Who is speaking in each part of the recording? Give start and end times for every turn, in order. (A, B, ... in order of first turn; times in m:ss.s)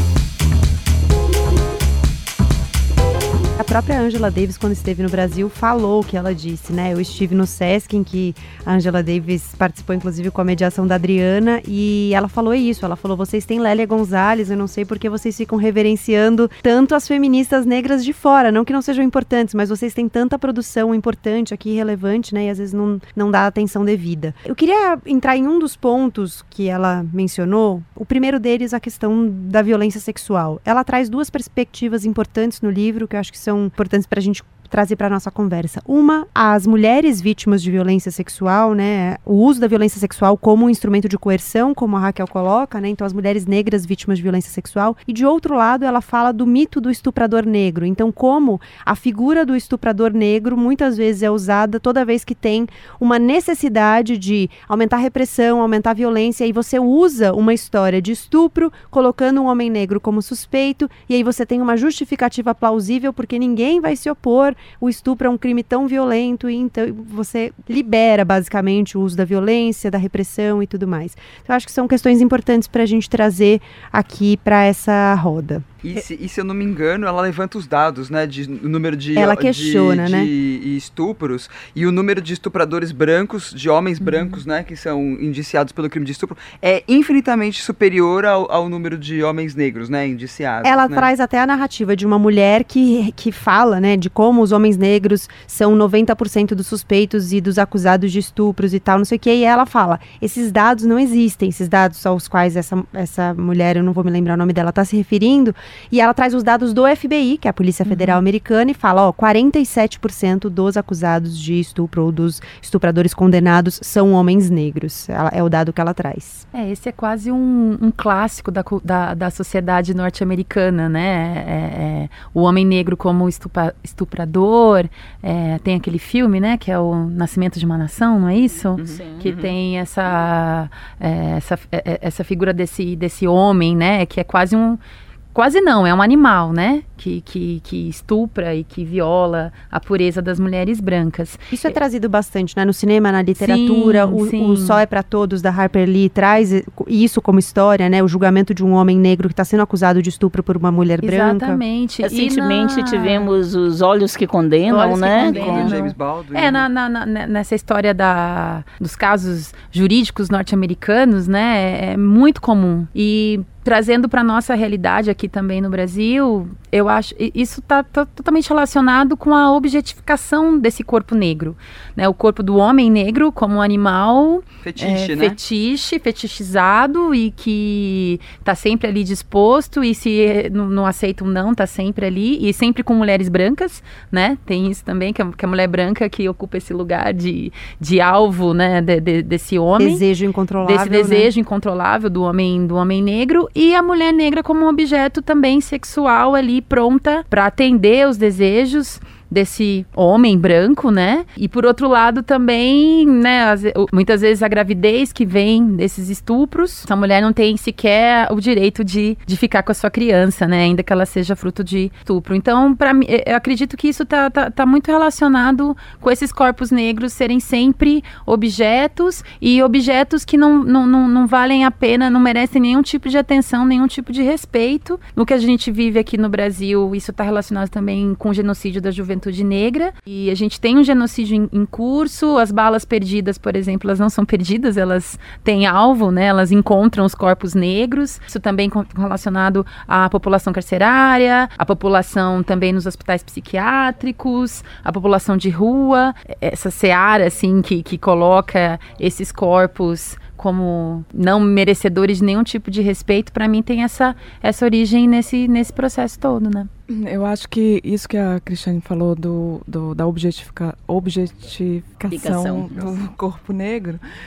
0:03.6-1:15.6 A
1:15.8-1:31.1 B
1:19.1-1:20.3 A
1:24.0-1:24.4 C
1:30.6-1:56.4 A
1:47.8-1:48.2 C
1:56.5-2:14.8 C
2:08.8-2:09.5 B
2:15.3-2:21.8 C
2:21.5-2:31.6 A
2:23.4-2:24.8 C
2:31.0-2:33.3 C
2:32.0-2:35.8 D
2:34.7-3:10.0 C
2:35.1-2:36.6 B
2:54.6-2:55.4 B
3:09.8-3:11.3 A
3:10.6-4:16.7 C
4:16.9-4:24.0 E
4:22.1-4:22.9 D